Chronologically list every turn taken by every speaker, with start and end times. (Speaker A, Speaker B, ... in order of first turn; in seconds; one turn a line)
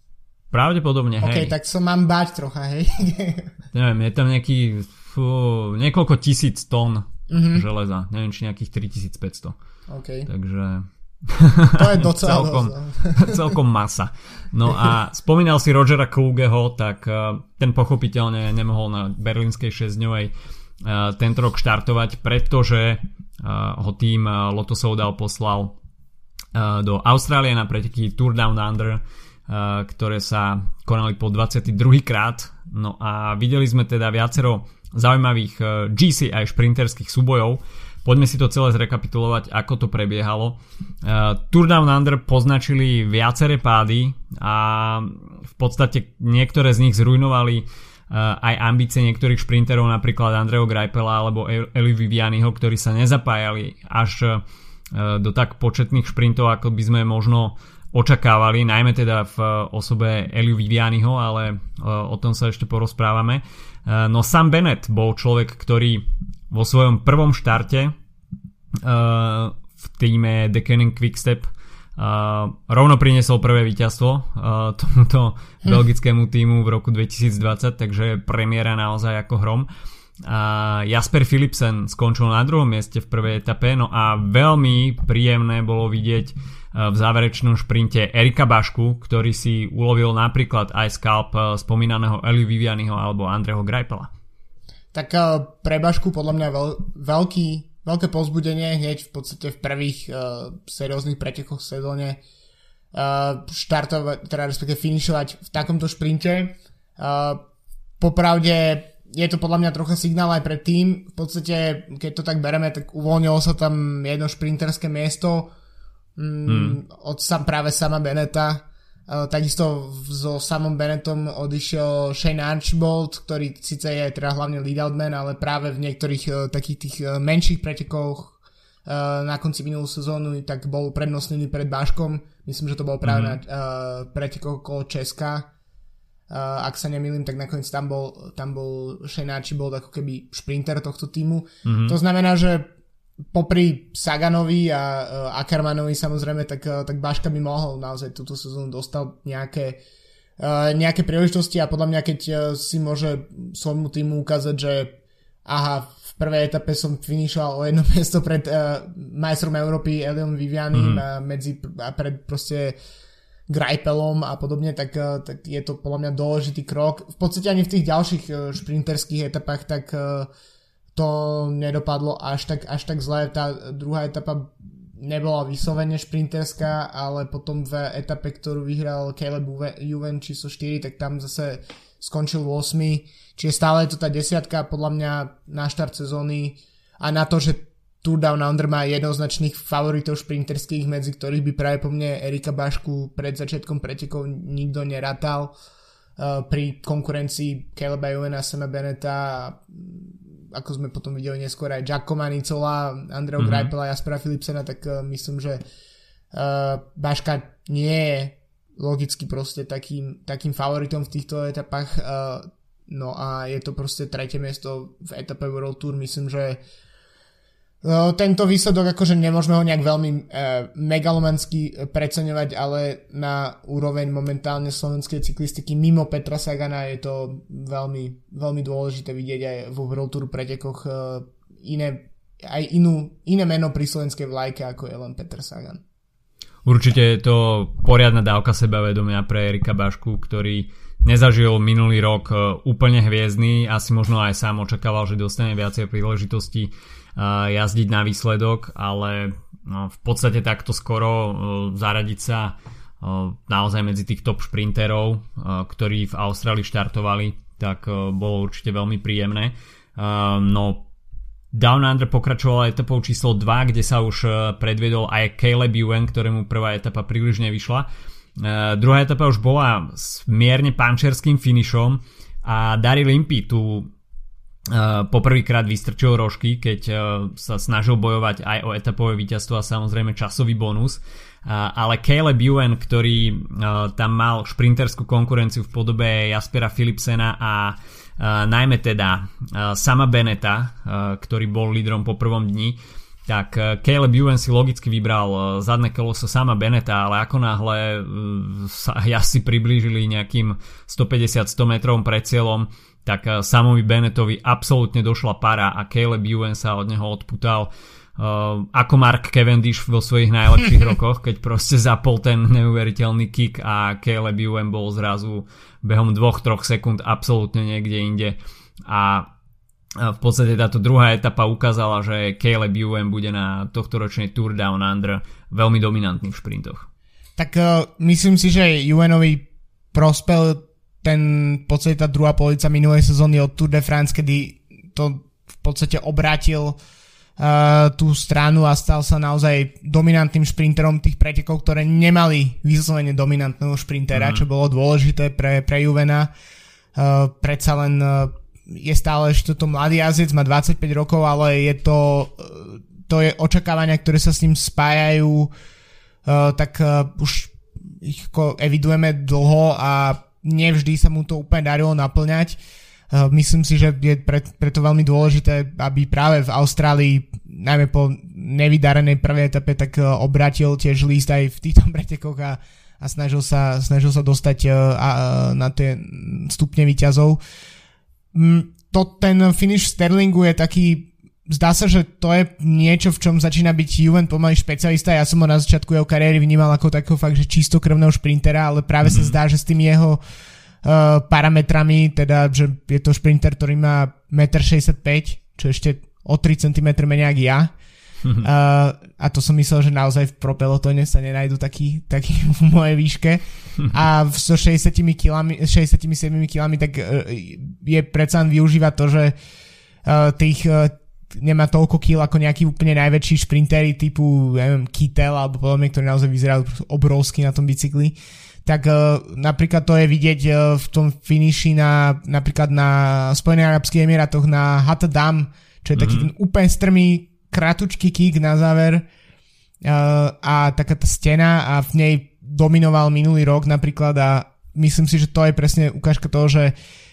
Speaker A: 0.5-1.5
Speaker B: 1.2-3.5
Speaker A: 3.7-9.6
Speaker B: 7.3-7.7
Speaker B: 9.9-10.3
Speaker A: 10.3-25.8
Speaker B: 11.7-13.6
Speaker A: 26.5-67.9
Speaker A: 68.8-79.7
Speaker A: 80.2-94.1
Speaker B: 94.9-102.2
Speaker B: 102.9-107.4
Speaker B: 108.0-115.5
Speaker B: 116.2-135.5
Speaker A: 116.5-116.8
Speaker A: 133.0-133.4
Speaker B: 136.3-142.7
Speaker A: 141.7-142.0
Speaker B: 143.3-149.8
Speaker B: 150.4-162.8
Speaker A: 160.7-161.0
Speaker B: 163.5-170.3
Speaker B: 170.9-195.5
Speaker B: 196.2-205.6
Speaker A: 203.4-203.7
Speaker B: 206.3-216.6
Speaker B: 217.8-235.8
Speaker A: 236.7-260.9
Speaker A: 261.5-273.9
Speaker A: 274.7-319.3
Speaker A: 320.0-326.9
Speaker B: 327.4-336.8
Speaker B: 337.4-346.3
Speaker A: 344.1-344.5
Speaker B: 347.0-355.5
Speaker B: 356.3-362.6
Speaker B: 363.1-377.4
Speaker B: 378.3-390.2
Speaker A: 389.1-389.4
Speaker B: 390.8-397.7
Speaker B: 398.4-409.4
Speaker B: 410.1-429.1
Speaker A: 426.0-426.3
Speaker B: 429.8-436.7